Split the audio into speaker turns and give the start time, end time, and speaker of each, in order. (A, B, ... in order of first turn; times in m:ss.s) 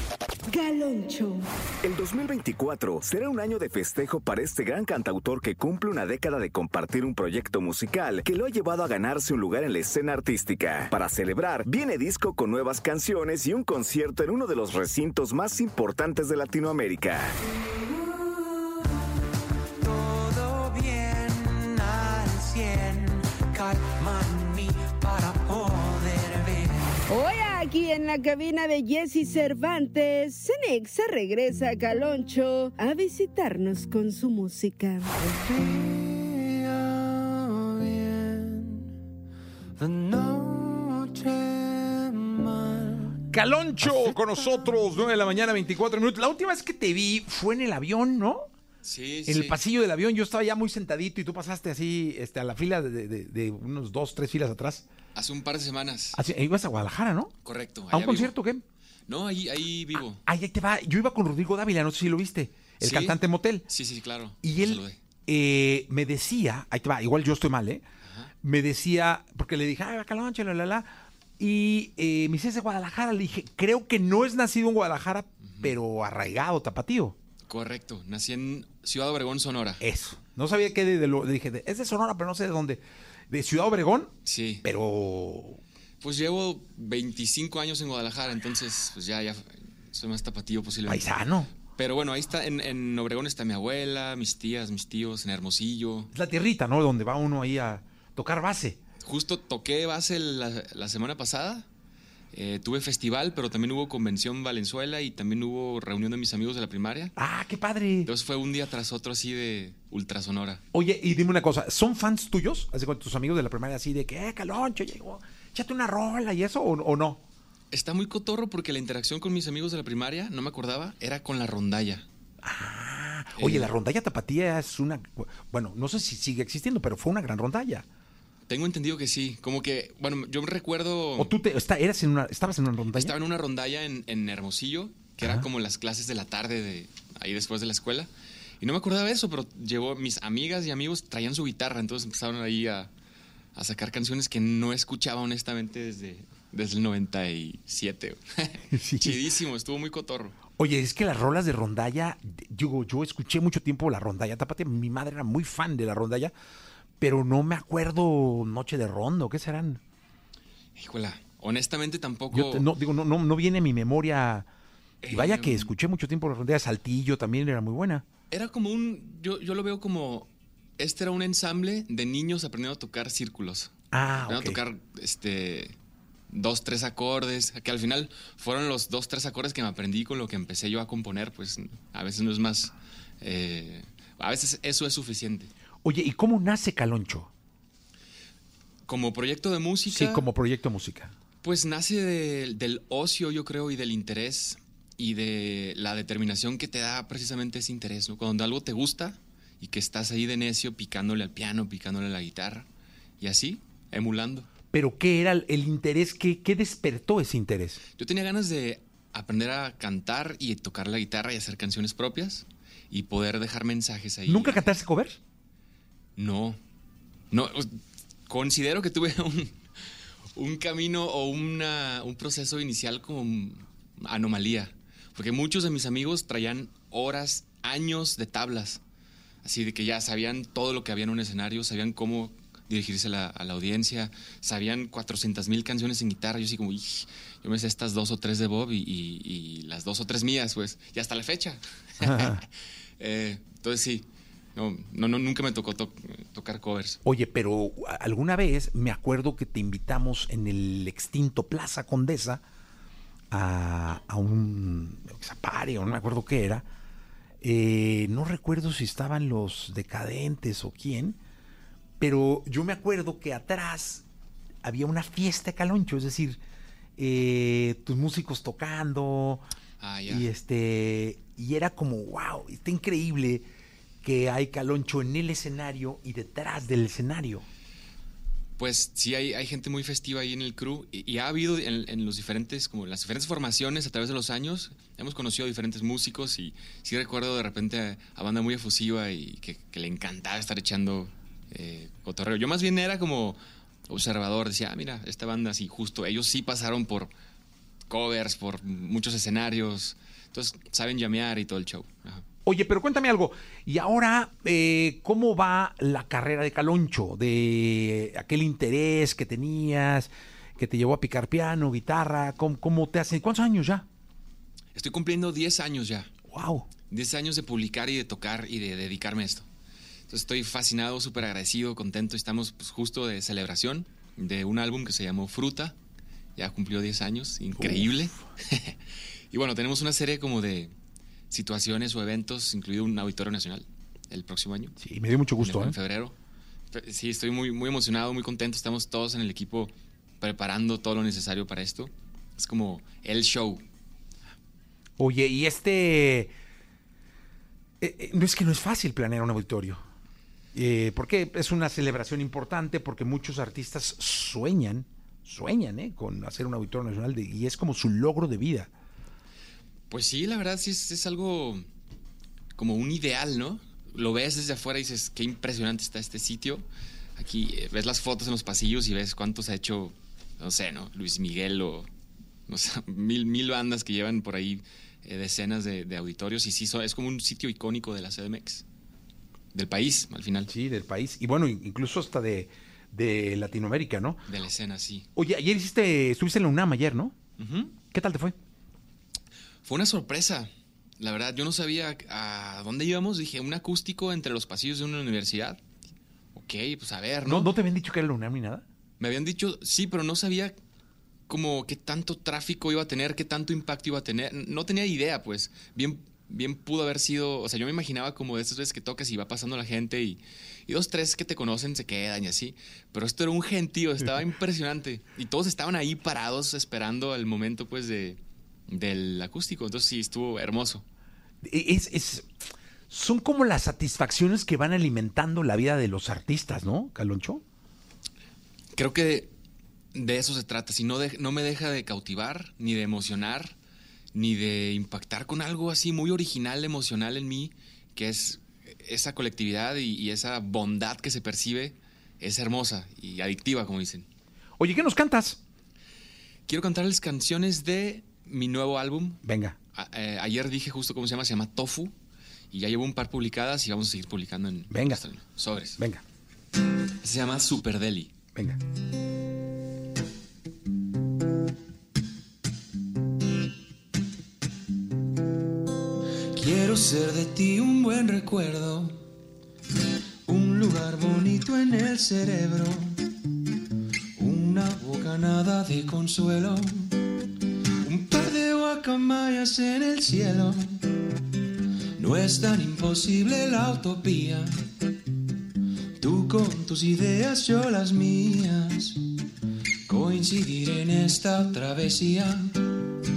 0:00.5-0:01.4 A
0:01.8-0:17.4 B
0:19.8-0:27.0 C
0:27.1-0:35.1 A
0:35.2-0:39.0 C
0:39.8-0:43.2 C
0:43.3-0:48.5 D
0:43.9-0:44.8 C
0:48.8-0:49.6 E
0:49.2-0:54.8 D
0:55.1-0:56.2 E
0:56.1-0:57.3 D
0:57.4-0:58.4 E
0:57.9-0:58.6 D
0:59.1-1:00.2 E
1:00.2-1:03.6 D
1:02.8-1:03.2 E
1:03.7-1:05.0 E
1:04.4-1:07.8 D
1:08.0-1:08.3 E
1:08.4-1:17.2 D
1:15.4-1:15.7 E
1:17.5-1:19.8 E
1:19.8-1:25.6 D
1:24.2-1:24.6 E
1:26.0-1:36.1 E
1:30.8-1:31.5 D
1:36.1-1:38.8 D
1:39.0-1:41.6 E
1:42.3-1:47.1 E
1:47.2-1:48.1 D
1:48.0-1:50.6 E
1:50.7-1:57.2 D
1:57.7-2:02.0 E
2:02.4-2:07.8 D
2:03.4-2:03.7 E
2:08.5-2:11.3 E
2:11.2-2:13.1 D
2:12.9-2:18.1 E
2:15.2-2:15.4 D
2:18.6-2:22.9 E
2:23.5-2:30.4 E
2:28.7-2:29.2 D
2:30.6-2:36.3 D
2:37.0-2:39.8 D
2:40.8-2:42.7 E
2:42.3-2:44.5 D
2:45.0-2:45.7 E
2:45.1-2:48.0 D
2:48.3-2:55.7 E
2:53.9-2:54.6 D
2:56.3-3:05.5 E
3:05.8-3:07.3 D
3:08.9-3:10.3 E
3:09.9-3:11.1 D
3:11.4-3:22.6 E
3:23.2-3:24.5 E
3:24.7-3:27.8 D
3:28.0-3:34.7 E
3:34.2-3:35.2 D
3:36.2-3:36.6 E
3:37.3-3:39.6 E
3:40.3-3:48.8 E
3:49.4-4:02.5 E
4:02.0-4:02.4 D
4:03.0-4:07.0 E
4:07.0-4:12.4 D
4:13.3-4:16.6 D
4:17.4-4:21.2 D
4:22.0-4:24.0 D
4:24.6-4:26.4 D
4:27.0-4:29.4 D
4:29.8-4:30.3 E
4:30.1-4:33.4 D
4:34.0-4:37.4 D
4:38.6-4:57.1 E
4:57.9-5:02.2 E
5:02.4-5:13.8 D
5:14.7-5:16.1 E
5:16.3-5:16.7 D
5:16.9-5:19.4 E
5:20.1-5:25.7 E
5:26.4-5:28.8 E
5:27.6-5:28.2 D
5:29.3-5:30.7 E
5:31.3-5:34.8 E
5:34.8-5:35.7 D
5:35.4-5:36.1 E
5:36.7-5:43.6 E
5:45.0-5:46.3 D
5:47.8-5:49.8 D
5:50.5-5:58.7 D
5:59.9-6:01.6 E
6:02.6-6:06.6 E
6:07.2-6:11.9 E
6:12.5-6:18.6 E
6:19.5-6:20.5 E
6:20.5-6:24.2 D
6:24.3-6:25.0 E
6:25.2-6:27.2 D
6:27.4-6:27.7 E
6:27.9-6:28.4 D
6:29.6-6:35.6 E
6:36.3-6:37.5 E
6:37.2-6:38.6 D
6:39.0-6:40.6 E
6:41.3-6:58.2 E
6:58.7-7:00.8 E
7:01.4-7:02.3 D
7:02.9-7:07.4 D
7:08.8-7:09.3 E
7:09.9-7:13.5 E
7:14.1-7:24.0 E
7:24.6-7:25.4 D
7:26.5-7:29.2 E
7:29.2-7:29.6 D
7:29.7-7:31.9 E
7:32.5-7:35.8 E
7:34.7-7:35.0 D
7:35.8-7:36.0 D
7:37.0-7:38.1 E
7:46.3-7:49.0 C
7:50.3-7:53.0 C
7:54.2-7:57.0 C
7:57.8-8:00.8 C
8:02.0-8:04.6 C
8:06.0-8:09.0 C
8:09.9-8:12.8 C